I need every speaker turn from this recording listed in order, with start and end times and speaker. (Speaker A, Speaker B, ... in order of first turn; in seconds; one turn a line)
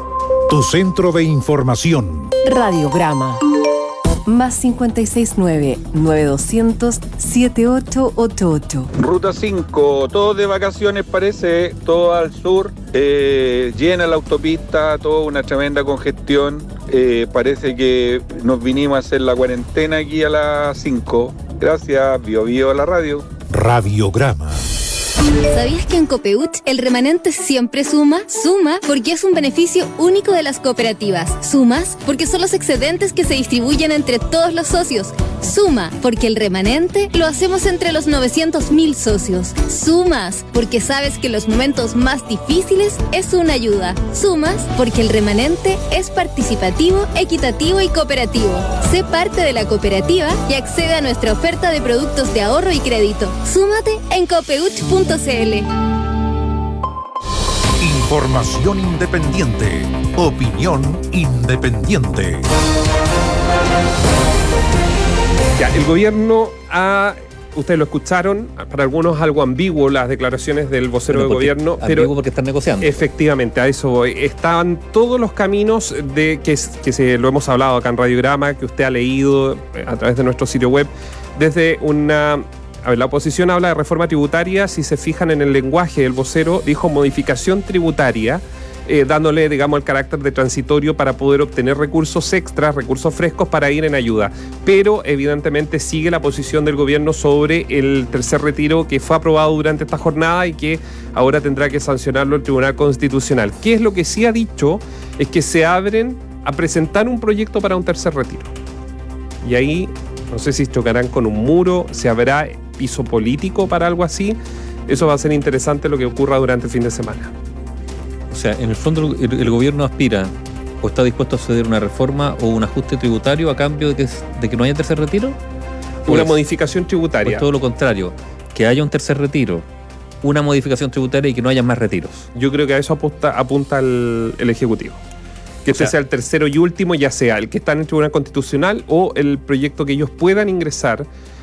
Speaker A: 0.5-2.3
Speaker B: 2.4-3.4
Speaker B: 4.2-8.9
Speaker C: 9.0-23.4
Speaker A: 23.5-24.7
Speaker D: 25.5-55.7
Speaker A: 57.8-62.5
Speaker E: 65.5-72.1
Speaker F: 71.1-73.0
Speaker E: 72.8-108.5
Speaker E: 109.4-117.3
Speaker F: 118.3-125.4
Speaker E: 126.0-127.4
Speaker F: 126.1-126.4
Speaker F: 127.2-129.7
Speaker F: 130.2-132.3
Speaker E: 132.3-135.0
Speaker E: 135.6-141.1